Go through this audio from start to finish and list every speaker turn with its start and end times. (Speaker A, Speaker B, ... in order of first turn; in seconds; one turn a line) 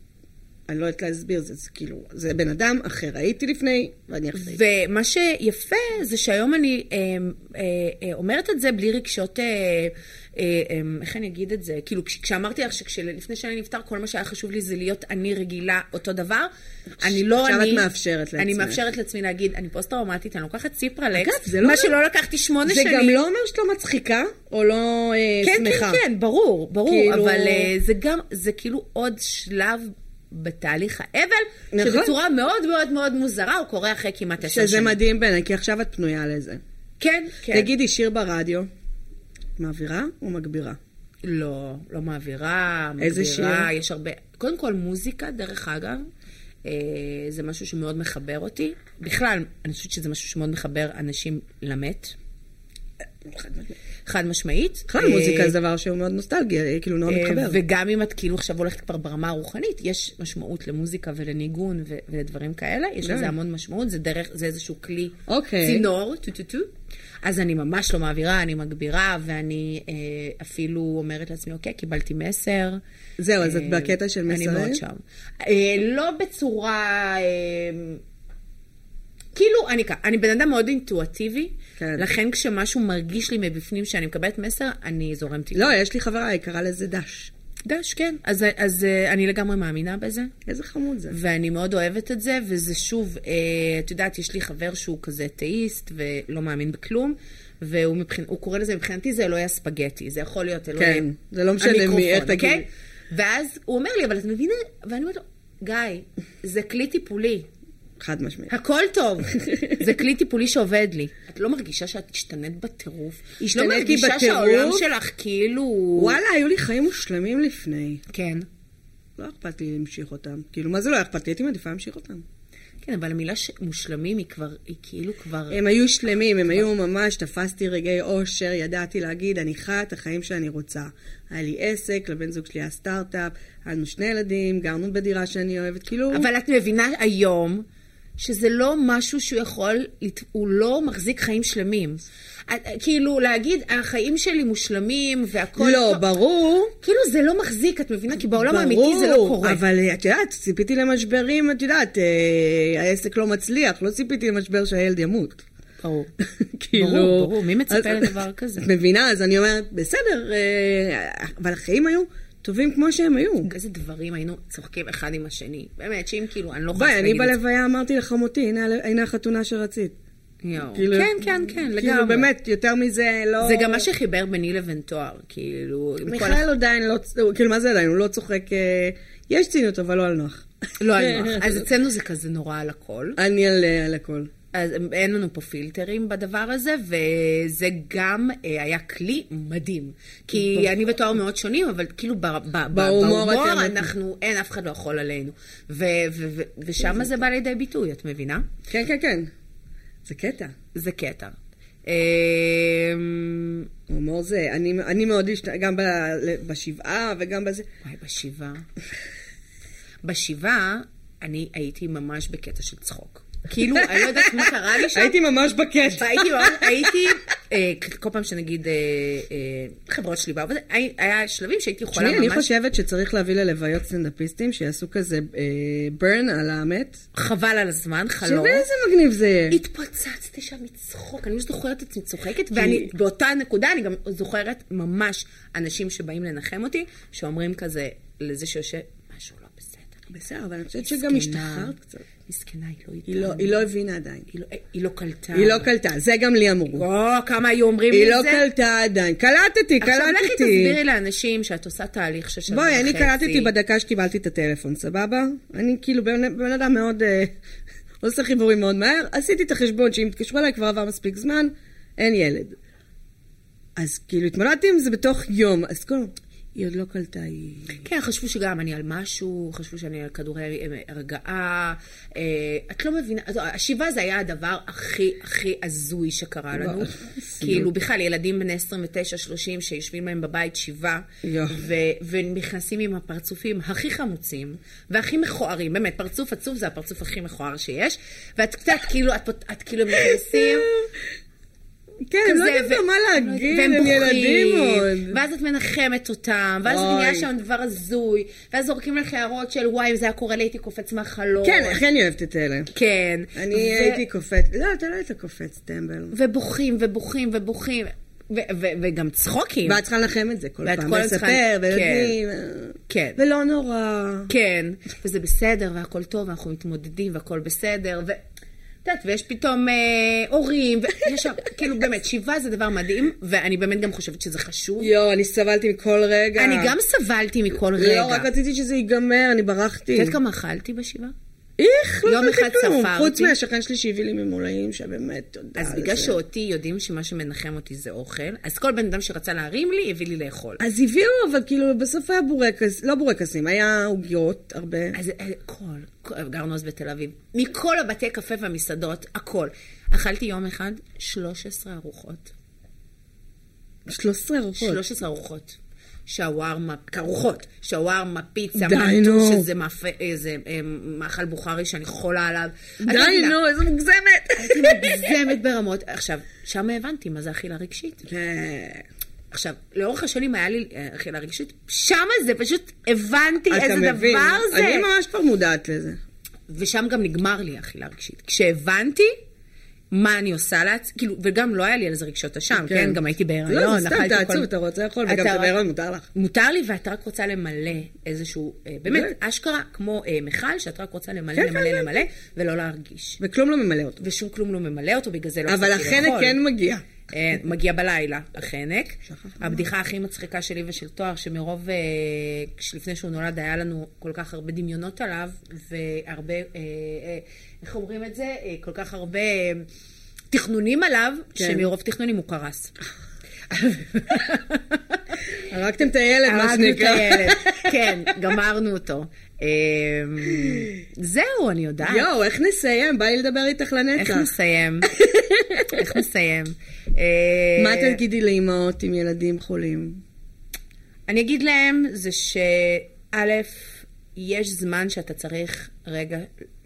Speaker A: 0.7-4.6
Speaker B: 4.3-16.5
Speaker B: 17.0-17.9
Speaker A: 17.0-18.8
Speaker B: 18.4-23.2
Speaker A: 21.1-21.9
Speaker A: 22.6-26.0
Speaker B: 25.4-35.0
Speaker A: 26.8-27.7
Speaker A: 31.7-32.1
Speaker A: 34.5-36.6
Speaker B: 37.0-37.7
Speaker A: 37.5-38.7
Speaker A: 39.6-40.8
Speaker B: 41.2-46.0
Speaker A: 43.0-43.7
Speaker B: 46.6-52.1
Speaker A: 53.2-53.7
Speaker B: 54.0-55.5
Speaker A: 54.9-57.6
Speaker B: 57.1-66.7
Speaker A: 63.0-63.3
Speaker A: 65.3-65.8
Speaker B: 67.2-72.8
Speaker A: 73.2-74.8
Speaker B: 73.4-78.0
Speaker B: 79.3-85.7
Speaker A: 81.8-82.1
Speaker A: 85.5-87.3
Speaker B: 87.7-90.3
Speaker A: 90.5-91.2
Speaker B: 91.1-101.1
Speaker A: 100.8-102.6
Speaker B: 101.6-107.5
Speaker A: 108.0-108.5
Speaker B: 108.5-116.2
Speaker A: 109.4-109.8
Speaker A: 113.5-114.8
Speaker A: 116.0-118.0
Speaker B: 118.1-118.5
Speaker A: 119.2-122.2
Speaker B: 122.8-125.6
Speaker A: 125.5-136.3
Speaker B: 136.1-137.6
Speaker B: 138.2-146.1
Speaker A: 145.6-146.7
Speaker B: 146.8-149.6
Speaker A: 148.3-155.4
Speaker B: 155.8-156.1
Speaker A: 156.2-163.5
Speaker B: 156.7-158.7
Speaker B: 163.4-167.4
Speaker A: 166.7-169.9
Speaker B: 170.4-172.3
Speaker A: 170.7-173.9
Speaker B: 173.4-176.4
Speaker A: 176.0-181.6
Speaker B: 180.8-183.2
Speaker A: 183.2-184.3
Speaker B: 184.5-198.5
Speaker A: 190.3-190.8
Speaker A: 192.7-193.9
Speaker A: 198.7-199.3
Speaker A: 200.0-200.5
Speaker B: 200.7-203.7
Speaker A: 203.9-207.7
Speaker B: 207.8-208.6
Speaker B: 210.0-215.2
Speaker A: 213.7-217.1
Speaker B: 215.9-222.5
Speaker A: 221.9-227.0
Speaker B: 227.1-228.7
Speaker A: 228.2-229.6
Speaker B: 229.5-240.0
Speaker A: 232.5-232.9
Speaker A: 240.1-242.0
Speaker B: 240.8-243.6
Speaker A: 243.1-244.3
Speaker B: 244.3-245.7
Speaker A: 245.3-246.8
Speaker B: 246.7-248.4
Speaker A: 247.9-250.8
Speaker B: 249.8-253.5
Speaker A: 252.5-257.3
Speaker A: 258.0-262.6
Speaker A: 263.8-267.8
Speaker B: 267.7-290.7
Speaker A: 276.5-277.7
Speaker A: 281.2-281.6
Speaker A: 289.9-291.0
Speaker A: 292.1-295.2
Speaker B: 292.2-301.8
Speaker A: 296.6-297.3
Speaker A: 301.4-302.7
Speaker B: 302.7-304.0
Speaker A: 303.3-306.1
Speaker B: 306.1-309.8
Speaker A: 309.6-314.3
Speaker B: 310.6-312.1
Speaker B: 312.9-313.2
Speaker B: 314.3-318.2
Speaker B: 318.8-324.9
Speaker A: 324.8-326.7
Speaker B: 326.4-328.3
Speaker A: 327.7-330.2
Speaker B: 329.9-331.1
Speaker A: 331.6-336.2
Speaker B: 332.0-333.4
Speaker B: 335.6-340.6
Speaker A: 340.6-345.0
Speaker B: 344.9-352.3
Speaker A: 353.9-354.8
Speaker B: 354.6-363.4
Speaker A: 358.5-359.4
Speaker A: 362.8-365.1
Speaker B: 364.4-368.1
Speaker A: 368.0-368.8
Speaker B: 369.3-374.9
Speaker A: 373.5-376.0
Speaker B: 376.5-379.1
Speaker B: 379.9-384.5
Speaker A: 382.5-386.1
Speaker B: 385.1-385.5
Speaker B: 386.1-393.2
Speaker A: 388.9-389.1
Speaker A: 391.3-392.0
Speaker A: 393.2-394.0
Speaker B: 394.0-396.4
Speaker A: 395.5-396.8
Speaker B: 397.1-409.6
Speaker A: 399.1-399.6
Speaker B: 410.3-412.7
Speaker A: 411.4-411.7
Speaker B: 413.5-415.0
Speaker A: 415.5-418.1
Speaker B: 416.2-422.1
Speaker A: 421.8-424.3
Speaker B: 423.9-424.9
Speaker A: 424.9-425.9
Speaker B: 425.7-428.0
Speaker A: 427.6-430.0
Speaker B: 431.1-436.3